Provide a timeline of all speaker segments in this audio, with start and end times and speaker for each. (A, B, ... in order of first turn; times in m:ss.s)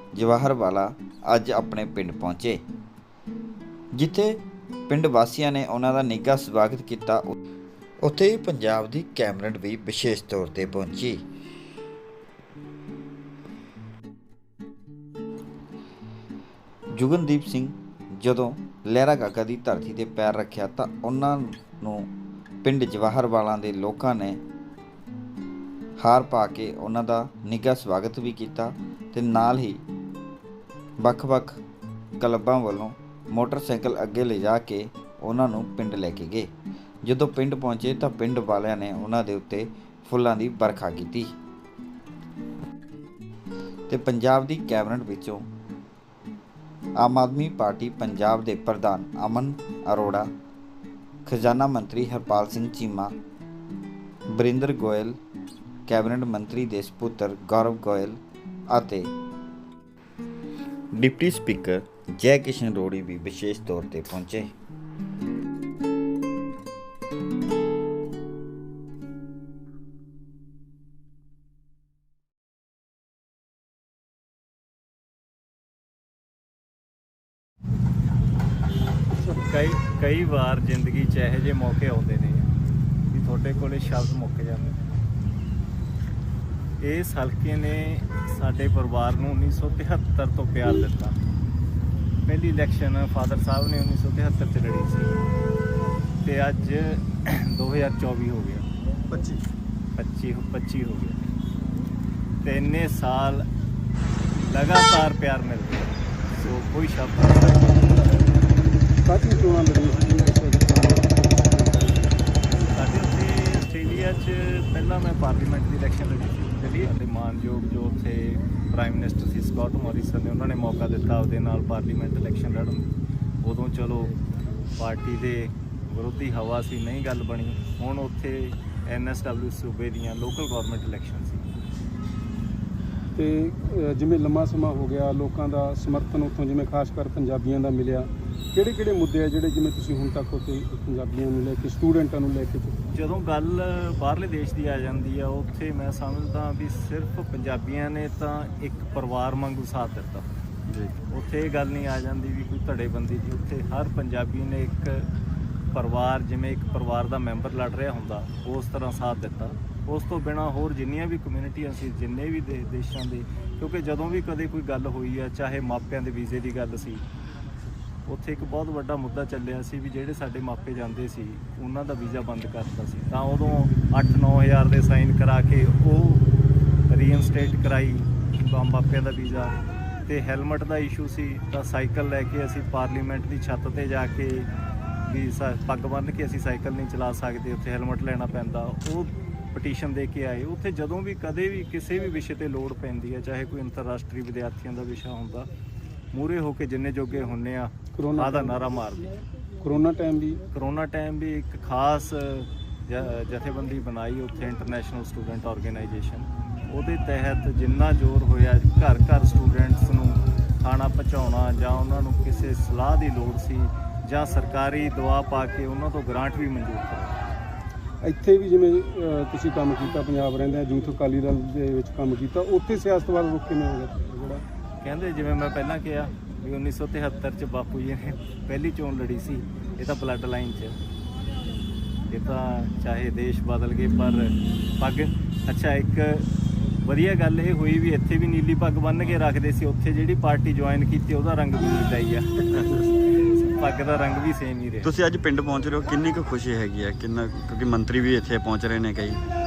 0:00.2-0:02.6 A
0:04.0-0:07.4 A
0:08.0-0:11.2 A
0:17.0-0:22.1 A
0:22.6-0:24.4 A
0:26.0-0:29.8 A
0:31.0-0:31.6 A
0:32.2-0:36.5 A
0:37.0-0:41.3 A
0:43.9-0:45.4 A
0:47.0-0:50.3 A
0:51.2-0:53.1 A
0:54.3-0:55.2 A
0:55.9-0:58.2 A
0:58.7-0:59.1 A
1:01.0-1:04.5 A
1:19.4-1:22.5 B
1:23.1-1:24.8 B
1:26.8-1:31.2 B
1:32.3-1:35.2 B
1:36.2-1:38.7 B
1:40.0-1:41.3 B
1:42.4-1:43.5 B
1:44.4-1:48.2 B
1:49.0-1:52.2 C
1:52.7-2:11.5 B
2:13.2-2:22.7 C
2:22.9-2:30.3 B
2:30.7-2:30.9 D
2:31.1-2:35.1 B
2:35.7-2:47.0 B
2:48.1-2:56.3 B
2:56.9-2:59.5 B
3:00.1-3:04.5 B
3:05.1-3:15.5 B
3:16.1-3:19.2 B
3:17.9-3:18.6 C
3:19.6-3:20.4 C
3:20.5-3:37.2 B
3:38.0-3:44.4 C
3:44.8-3:50.8 B
3:52.1-3:56.3 B
3:56.8-4:05.0 B
4:02.5-4:02.9 D
4:04.8-4:09.2 D